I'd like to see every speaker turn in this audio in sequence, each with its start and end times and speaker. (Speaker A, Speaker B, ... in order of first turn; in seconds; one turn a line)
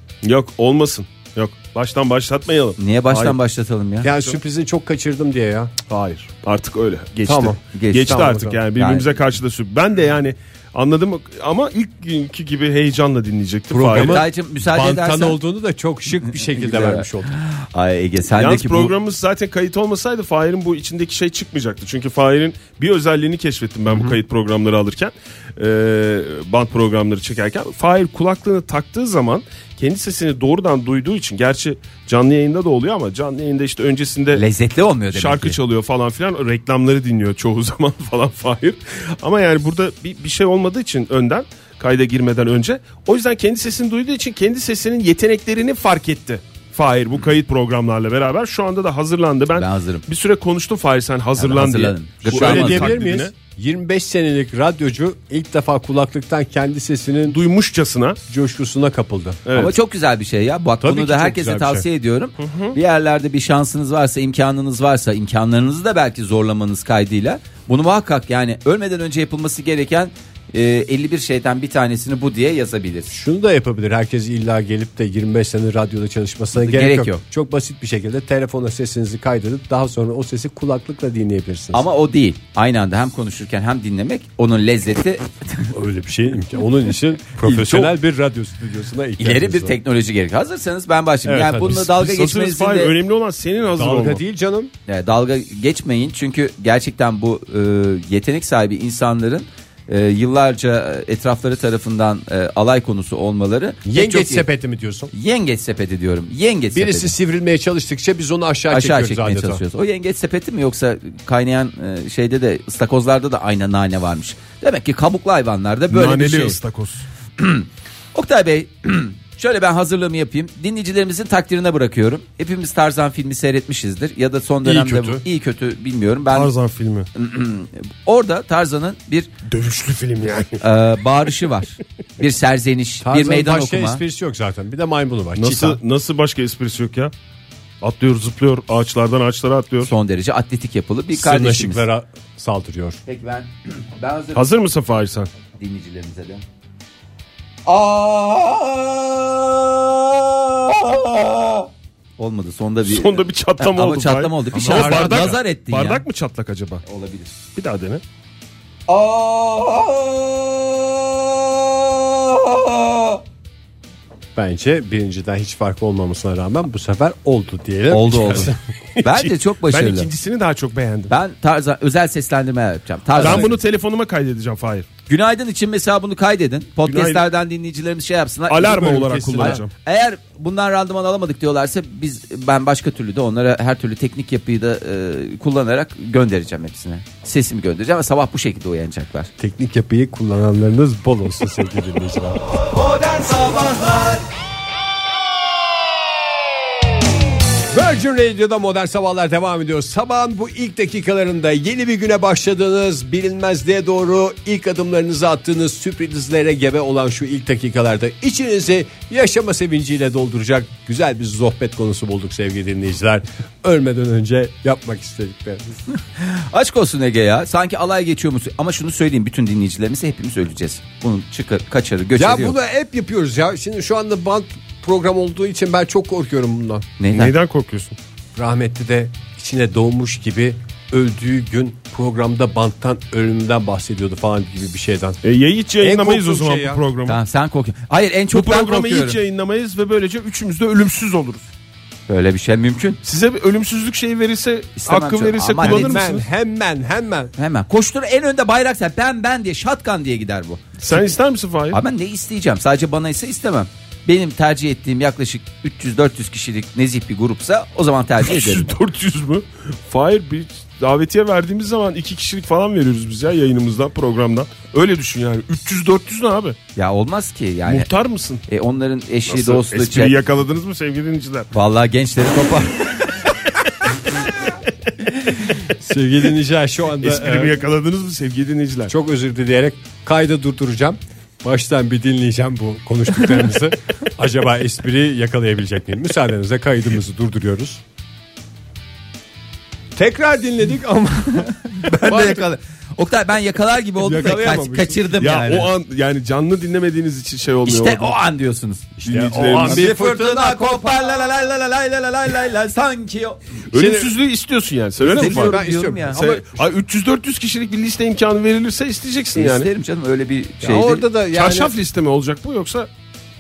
Speaker A: 0.2-3.4
Speaker B: 2.8-4.1
Speaker C: 4.0-6.2
Speaker A: 5.9-14.2
Speaker C: 7.3-8.6
Speaker B: 7.7-9.1
Speaker C: 13.7-17.4
Speaker B: 13.9-15.4
Speaker B: 16.3-18.9
Speaker A: 18.4-34.4
Speaker C: 23.9-24.2
Speaker B: 34.4-35.6
Speaker A: 35.1-53.3
Speaker B: 49.5-50.0
Speaker B: 51.4-53.0
Speaker C: 52.3-57.4
Speaker A: 57.3-58.2
Speaker C: 58.3-59.4
Speaker A: 59.5-59.8
Speaker B: 59.5-73.1
Speaker C: 60.8-61.9
Speaker A: 62.4-62.8
Speaker C: 73.1-81.8
Speaker B: 76.5-77.2
Speaker B: 81.7-85.7
Speaker C: 85.7-89.8
Speaker B: 87.4-87.9
Speaker B: 89.2-92.9
Speaker C: 91.2-91.9
Speaker A: 91.7-94.2
Speaker C: 93.8-94.7
Speaker B: 94.9-104.5
Speaker C: 103.9-105.1
Speaker B: 105.1-107.1
Speaker C: 106.7-109.6
Speaker B: 108.7-116.6
Speaker A: 115.9-117.0
Speaker B: 117.4-126.5
Speaker C: 124.6-125.2
Speaker A: 126.3-127.1
Speaker B: 127.2-129.3
Speaker A: 129.5-130.6
Speaker B: 130.6-134.0
Speaker C: 133.0-135.8
Speaker A: 135.4-137.1
Speaker A: 137.8-139.9
Speaker B: 139.8-141.9
Speaker C: 141.1-143.0
Speaker B: 143.1-144.4
Speaker A: 144.3-145.3
Speaker B: 145.6-146.4
Speaker B: 147.7-156.0
Speaker A: 152.9-156.8
Speaker C: 154.6-155.4
Speaker B: 156.8-157.3
Speaker A: 157.6-158.0
Speaker B: 158.9-163.2
Speaker C: 164.4-168.5
Speaker B: 167.9-170.1
Speaker A: 168.3-171.1
Speaker B: 171.1-173.5
Speaker A: 173.2-174.9
Speaker C: 173.2-173.6
Speaker B: 175.1-189.3
Speaker A: 176.8-177.2
Speaker A: 178.5-179.7
Speaker C: 178.6-179.6
Speaker C: 189.4-192.4
Speaker B: 193.1-193.8
Speaker C: 197.7-215.8
Speaker B: 215.9-222.6
Speaker C: 222.2-226.9
Speaker B: 227.0-227.3
Speaker A: 227.1-228.0
Speaker C: 228.4-235.2
Speaker A: 235.2-237.2
Speaker C: 235.8-236.8
Speaker B: 237.1-239.2
Speaker A: 238.3-241.4
Speaker B: 242.1-243.0
Speaker A: 243.0-246.2
Speaker B: 244.8-246.0
Speaker C: 245.6-247.3
Speaker B: 247.4-251.1
Speaker A: 250.8-251.8
Speaker B: 251.7-258.7
Speaker A: 258.2-266.6
Speaker B: 266.8-267.9
Speaker A: 267.7-268.4
Speaker B: 268.5-270.1
Speaker A: 269.3-271.5
Speaker B: 271.5-273.3
Speaker C: 275.7-277.6
Speaker A: 277.0-278.9
Speaker C: 278.9-287.8
Speaker C: 289.9-292.4
Speaker B: 291.7-295.7
Speaker C: 294.0-295.1
Speaker A: 295.2-298.2
Speaker B: 297.7-303.4
Speaker C: 299.0-301.2
Speaker A: 299.1-299.9
Speaker A: 303.7-309.7
Speaker C: 303.7-304.1
Speaker C: 305.0-306.6
Speaker B: 305.2-306.2
Speaker B: 309.4-311.0
Speaker C: 310.6-311.7
Speaker A: 311.3-312.9